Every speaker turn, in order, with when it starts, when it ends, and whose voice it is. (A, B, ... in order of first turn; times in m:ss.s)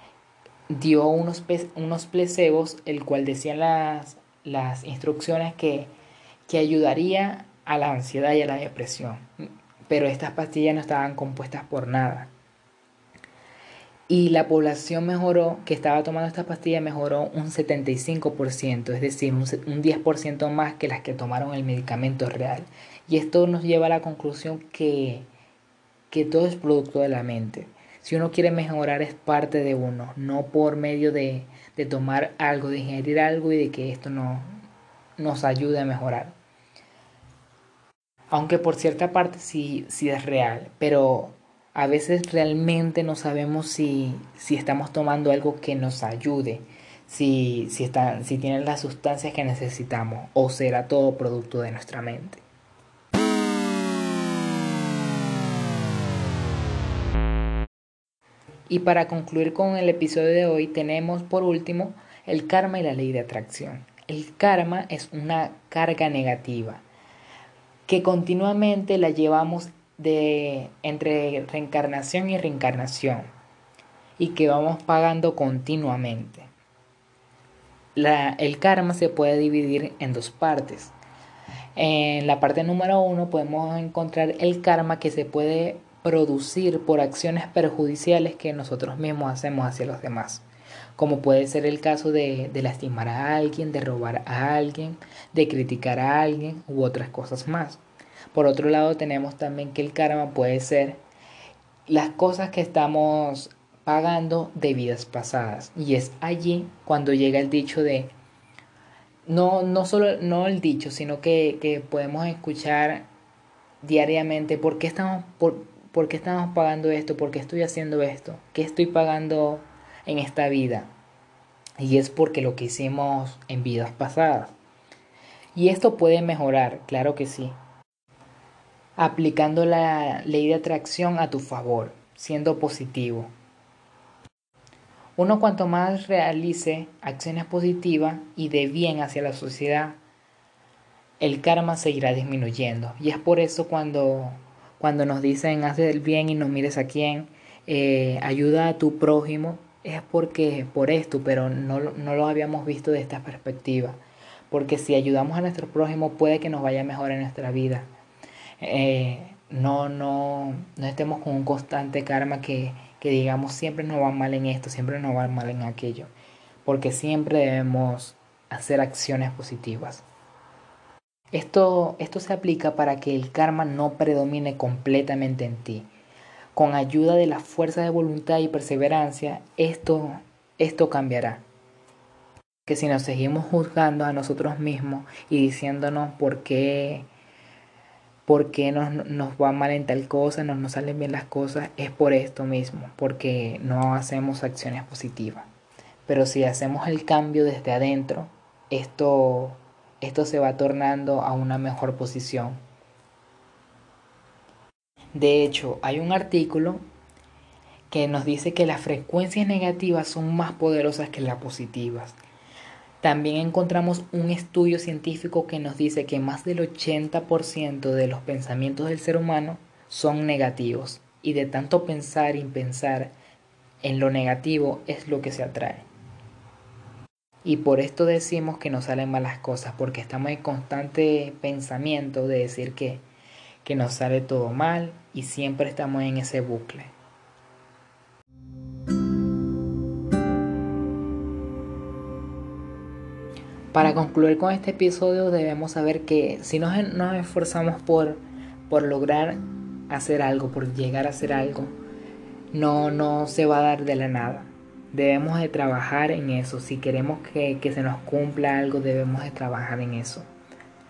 0:00.7-0:05.9 A
0:06.5-0:09.2 A
0:09.9-0:12.3 A
0:14.1-0:25.3 A
0:26.1-0:34.5 A
0:35.2-0:36.3 A
0:38.3-0:52.4 A
0:58.7-1:06.8 A
1:07.9-1:13.3 A
1:14.2-1:16.5 A
1:18.0-1:20.9 A
1:21.8-1:30.4 A
1:31.0-1:37.8 A
1:38.3-1:41.0 A
1:41.9-1:48.1 A
1:49.3-1:53.1 A
1:53.8-2:00.9 A
2:01.8-2:04.5 A
2:05.5-2:07.6 A
2:09.0-2:13.3 A
2:15.2-2:20.0 A
2:21.2-2:34.0 A
2:34.5-2:37.9 A
2:38.6-2:46.1 A
2:46.6-2:50.0 A
2:51.3-2:55.9 A
2:56.5-3:01.4 A
3:02.6-3:07.1 A
3:08.2-3:15.5 A
3:16.1-3:22.6 A
3:25.1-3:26.8 A
3:27.9-3:32.2 A
3:33.0-3:43.1 A
3:43.8-3:45.8 A
3:47.4-3:53.0 A
3:53.6-3:56.9 A
4:03.7-4:11.7 A
4:12.5-4:20.2 A